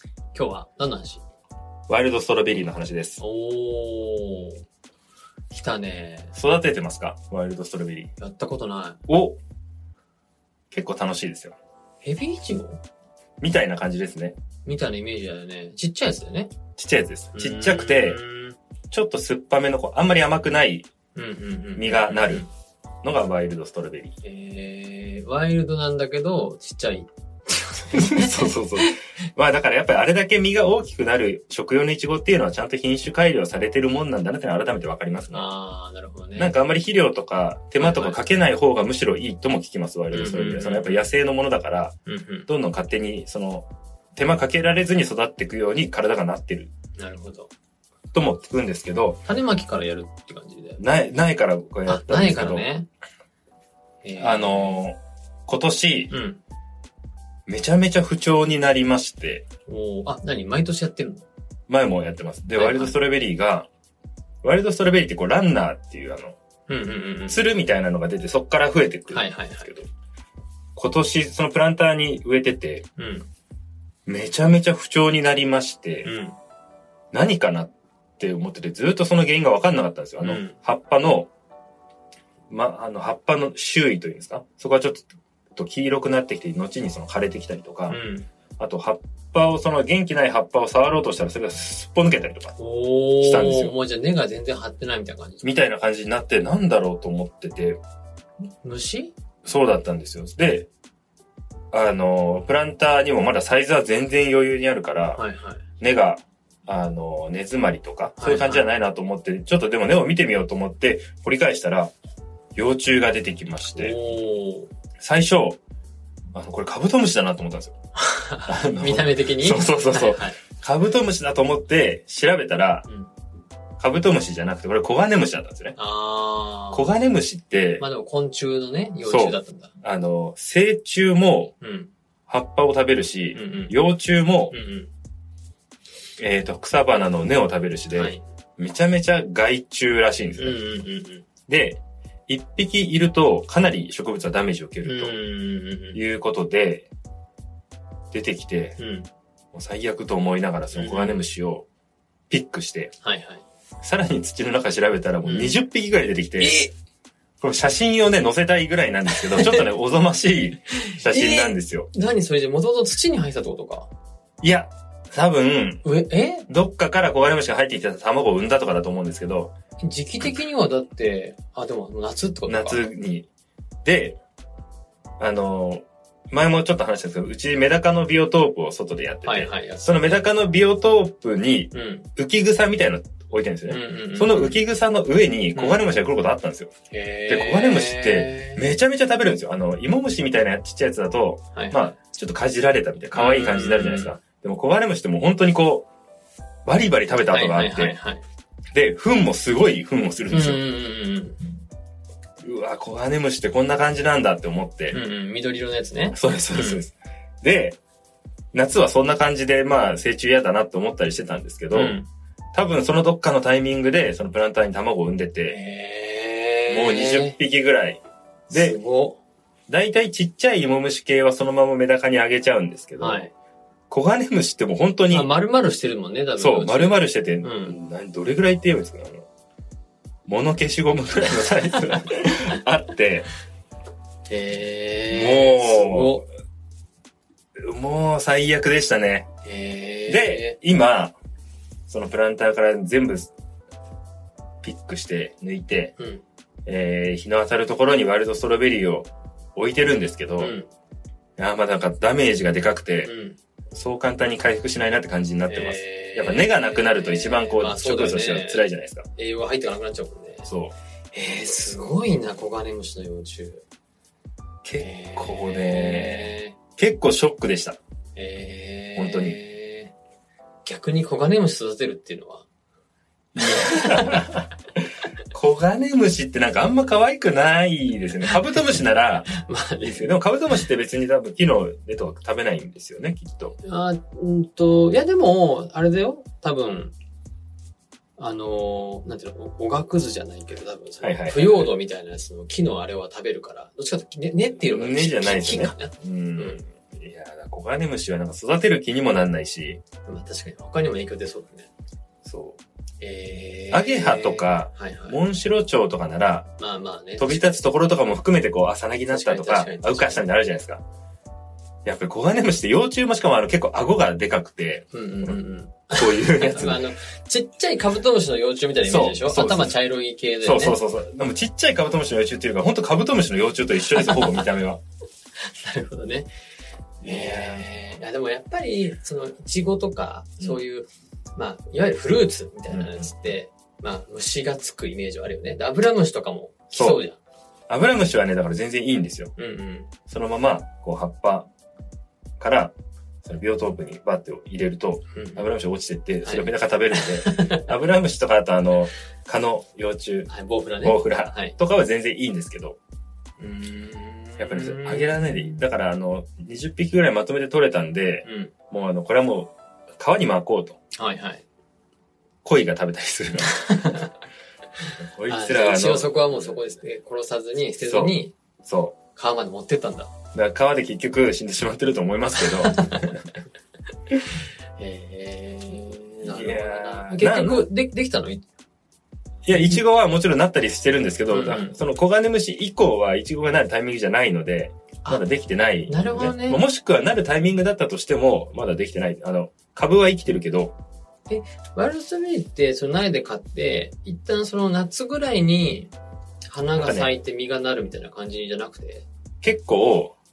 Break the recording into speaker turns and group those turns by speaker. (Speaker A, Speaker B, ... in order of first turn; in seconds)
Speaker A: 0.3-1.2, 3.2-4.6, 5.5-6.3, 8.2-9.0, 12.0-12.8, 14.7-16.5, 17.4-18.6, 21.2-22.5, 24.2-28.9, 35.3-36.5, 37.8-38.2, 40.1-41.1, 42.1-42.5, 47.0-47.5, 49.3-50.8, 51.9-52.9, 54.0-54.8, 56.1-56.4, 59.7-61.2, 62.5-63.0, 66.7-67.5, 69.1-69.7, 73.0-73.3, 76.0-76.4, 80.2-80.5, 87.9-88.3, 92.6-95.5, 98.6-99.1, 105.2-105.7, 108.2-108.7, 113.7-114.7, 118.0-120.4, 122.9-123.1, 125.8-127.0, 127.8-129.8, 131.6-131.9, 133.3-133.7, 134.5-134.9, 137.9-138.2, 140.4-141.3, 144.8-146.0, 148.8-149.1, 150.7-151.3, 153.0-153.4, 155.2-155.6, 156.4-156.7, 159.2-159.7, 160.9-163.9, 165.8-166.5, 169.8-172.8, 179.2-180.3, 181.7-182.1, 183.7-184.6, 185.6-185.9, 186.9-188.6, 191.6-191.9, 193.1-194.2, 197.3-198.2, 200.3-201.4, 204.9-206.8, 211.7-212.1, 215.5-217.4, 218.5-219.2, 223.0-223.3, 225.1-227.8, 234.3-236.2, 239.4-240.6, 246.0-246.2, 250.4-250.7, 253.0-253.4, 255.5-260.5, 261.1-263.6, 264.8-266.6, 268.2-269.9, 270.6-272.5, 273.5-274.3, 279.3-280.1, 283.6-286.9, 288.2-296.6, 300.1-301.7, 303.0-305.2, 306.6-307.7, 309.1-310.2, 314.9-320.8, 324.0-324.5, 325.4-326.3, 327.0-337.2, 339.4-339.9, 345.1-345.5, 346.2-347.7, 350.3-351.6, 353.4-355.7, 358.2-358.5, 361.0-361.4, 363.5-364.1, 365.3-368.3, 369.2-370.1, 372.4-373.0, 374.8-378.4, 379.5-379.8, 381.3-381.8, 385.9-386.6, 391.3-395.9, 396.5-399.1
Speaker B: 1.9-3.2, 6.3-8.1, 9.1-9.4, 10.7-11.6, 13.4-14.4, 16.8-18.2, 18.9-20.9, 21.8-22.5, 23.0-24.2, 27.9-35.5, 36.4-41.9, 42.5-46.7, 48.1-49.2, 50.8-52.7, 54.2-56.1, 57.5-59.4, 61.7-63.7, 64.4-66.4, 67.3-69.9, 70.8-72.9, 74.1-76.1, 77.1-81.3, 82.5-88.0, 88.6-92.5, 93.2-93.7, 95.4-97.8, 99.4-100.7, 101.7-105.2, 105.8-111.9, 112.6-114.0, 115.0-115.6, 116.3-117.7, 118.5-122.9, 123.8-125.8, 126.7-127.8, 129.1-131.5, 132.3-134.6, 136.2-140.6, 141.5-145.2, 145.9-146.9, 148.1-148.8, 149.5-151.7, 152.3-152.9, 153.8-156.6, 157.4-161.9, 164.4-165.9, 166.5-169.5, 172.5-173.3, 173.8-174.2, 175.2-186.7, 187.3-195.9, 196.7-198.0, 198.7-200.6, 202.4-205.0, 206.1-207.8, 208.5-212.0, 212.5-215.6, 216.7-218.8, 219.7-223.3, 223.9-225.3, 226.4-229.3, 230.3-233.3, 235.1-236.2, 237.6-239.3, 240.1-241.2, 241.9-243.3, 244.6-245.9, 246.7-250.5, 251.4-253.1, 253.7-259.1, 260.4-260.7, 264.6-267.8, 269.0-269.4, 273.4-279.3, 279.8-283.6, 291.0-291.7, 294.6-299.8, 302.2-302.6, 303.7-306.5, 307.2-310.8, 311.9-315.4, 315.9-316.9, 318.8-319.8, 320.4-324.8, 327.0-327.7, 332.7-333.1, 336.7-337.0, 337.7-339.3, 340.1-341.5, 342.4-350.3, 350.8-352.8, 354.4-360.8, 362.4-363.7, 365.0-366.7, 367.8-368.9, 370.3-373.2, 376.2-377.7, 379.4-390.8, 396.8-397.1, 399.4-400.2